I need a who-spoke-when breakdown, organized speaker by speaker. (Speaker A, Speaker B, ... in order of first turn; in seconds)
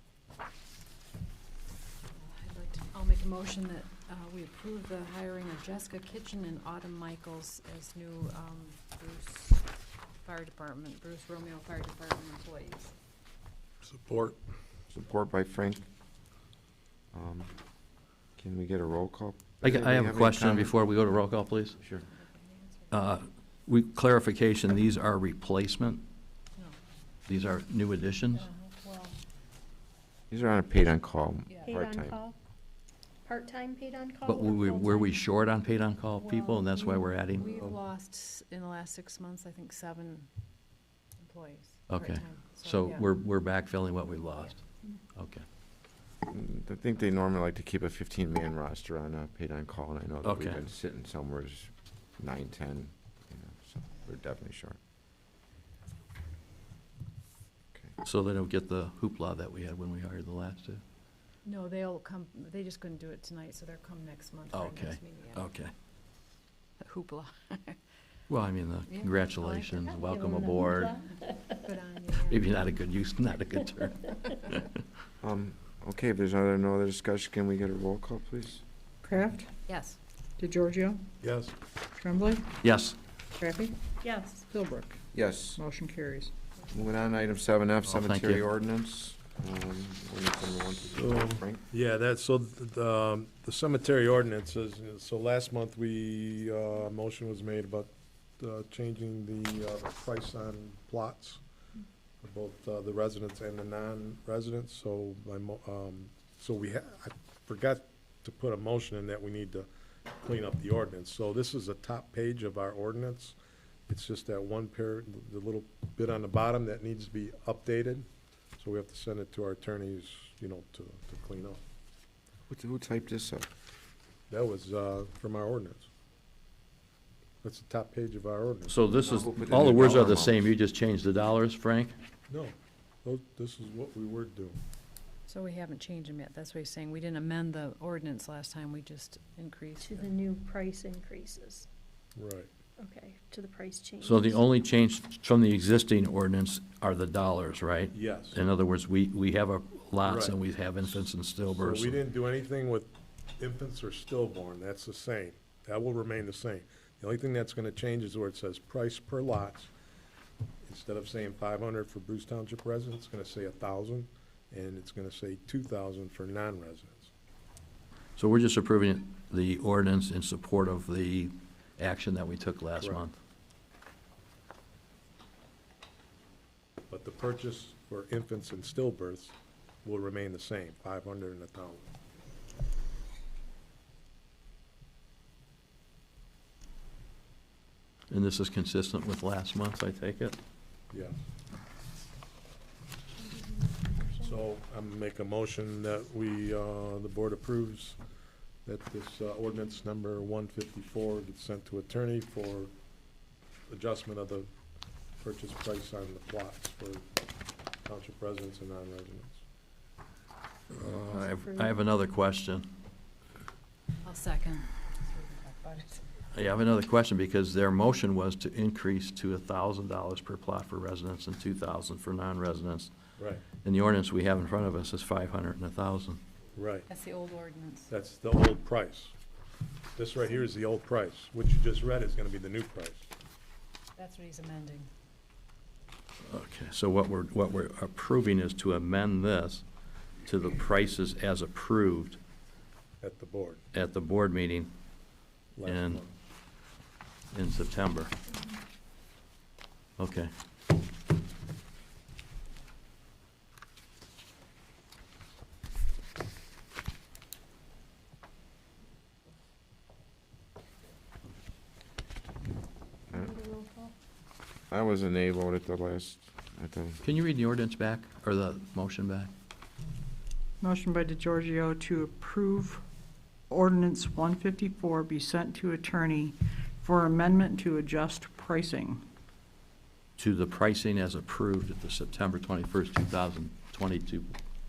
Speaker A: 2.1-12.9, 22.2-23.0, 28.4-29.2, 36.2-40.3, 41.2-43.1, 61.4-65.4, 66.8-67.8, 68.9-69.7, 71.6-72.5, 79.7-80.0, 135.3-140.1, 214.0-216.0, 226.9-227.9, 233.9-234.9
Speaker B: 13.8-14.4, 81.2-81.5, 90.9-101.4, 102.2-113.3, 113.9-118.1, 118.6-121.6, 124.3-125.9, 127.4-128.8, 132.3-134.6, 142.2-142.5, 147.9-148.4, 150.0-150.4, 151.5-159.7, 160.6-167.1, 176.9-181.8, 190.9-191.2, 194.2-198.0, 198.7-202.7, 203.7-204.5, 205.2-207.1, 207.8-209.4, 223.2-223.4, 226.5-226.9, 227.9-229.1, 229.9-233.1, 243.0-243.6, 245.6-246.1
Speaker C: 14.9-15.9, 17.1-17.5, 18.4-20.7, 21.8-22.1, 30.3-32.2, 46.2-54.8, 75.2-78.6, 85.1-85.6, 86.7-91.6, 122.5-123.5, 129.0-130.5, 264.7-267.0
Speaker D: 19.6-21.8, 22.9-26.0, 27.3-28.5, 34.2-37.7, 41.9-45.4, 50.2-50.6, 58.0-60.8, 64.5-65.7, 68.3-70.9, 72.3-74.8, 82.6-83.0, 87.8-88.4, 128.7-131.9, 144.0-152.0, 168.2-173.2, 188.1-190.4, 210.7-212.7, 216.3-222.9, 223.6-226.2, 236.2-239.6, 240.2-242.2, 243.7-244.7, 245.6-246.0, 247.3-248.1, 250.0-250.3, 267.0-269.3, 280.2-284.3
Speaker E: 31.6-32.3, 33.2-35.2, 69.9-71.6, 84.0-84.5, 139.8-141.7, 142.8-144.4, 193.2-194.3, 263.1-263.9
Speaker F: 79.0-79.5, 80.4-81.0, 82.0-82.5, 83.4-83.8, 84.5-85.0, 85.5-86.3, 270.6-272.8, 273.5-279.0